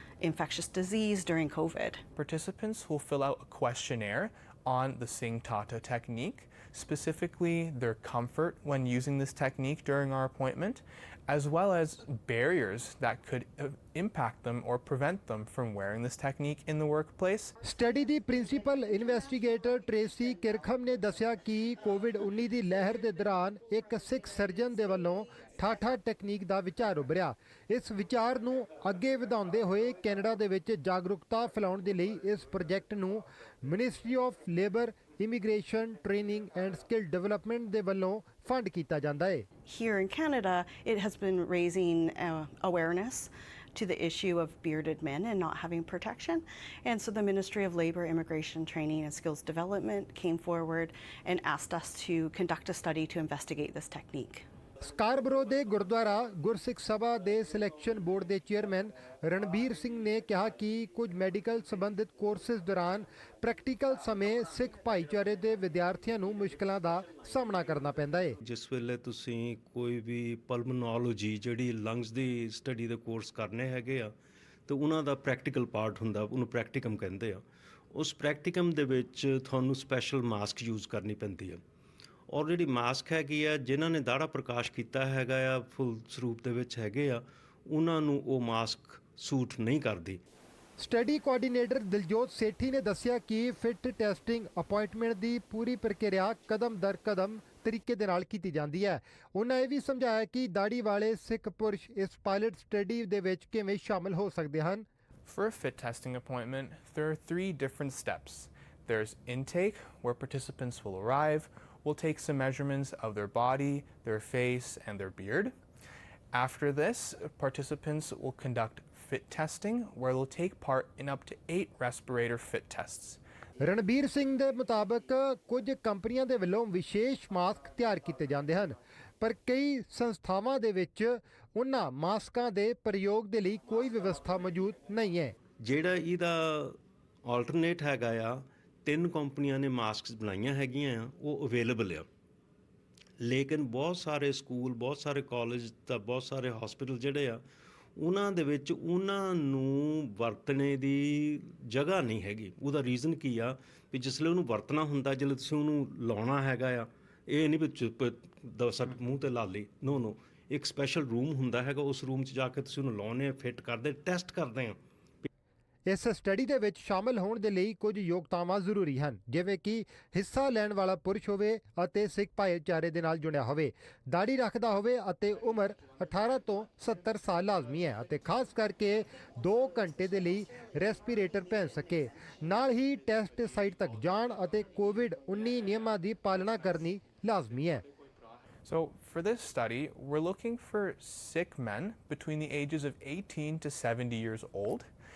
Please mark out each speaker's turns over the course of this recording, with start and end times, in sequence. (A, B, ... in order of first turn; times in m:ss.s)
0:00.2-0:02.0 A
0:02.2-0:17.5 B
0:17.6-0:39.5 C
0:39.7-0:54.4 A
0:54.8-1:08.4 C
1:08.4-1:14.1 D
1:14.7-1:21.6 D
1:22.3-1:30.2 D
1:30.8-1:44.9 C
1:45.2-1:55.5 B
1:56.3-2:03.2 B
2:03.6-2:15.4 C
2:15.6-2:22.1 D
2:23.2-2:27.4 D
2:28.0-2:44.8 D
2:45.9-3:07.8 C
3:08.6-3:14.9 B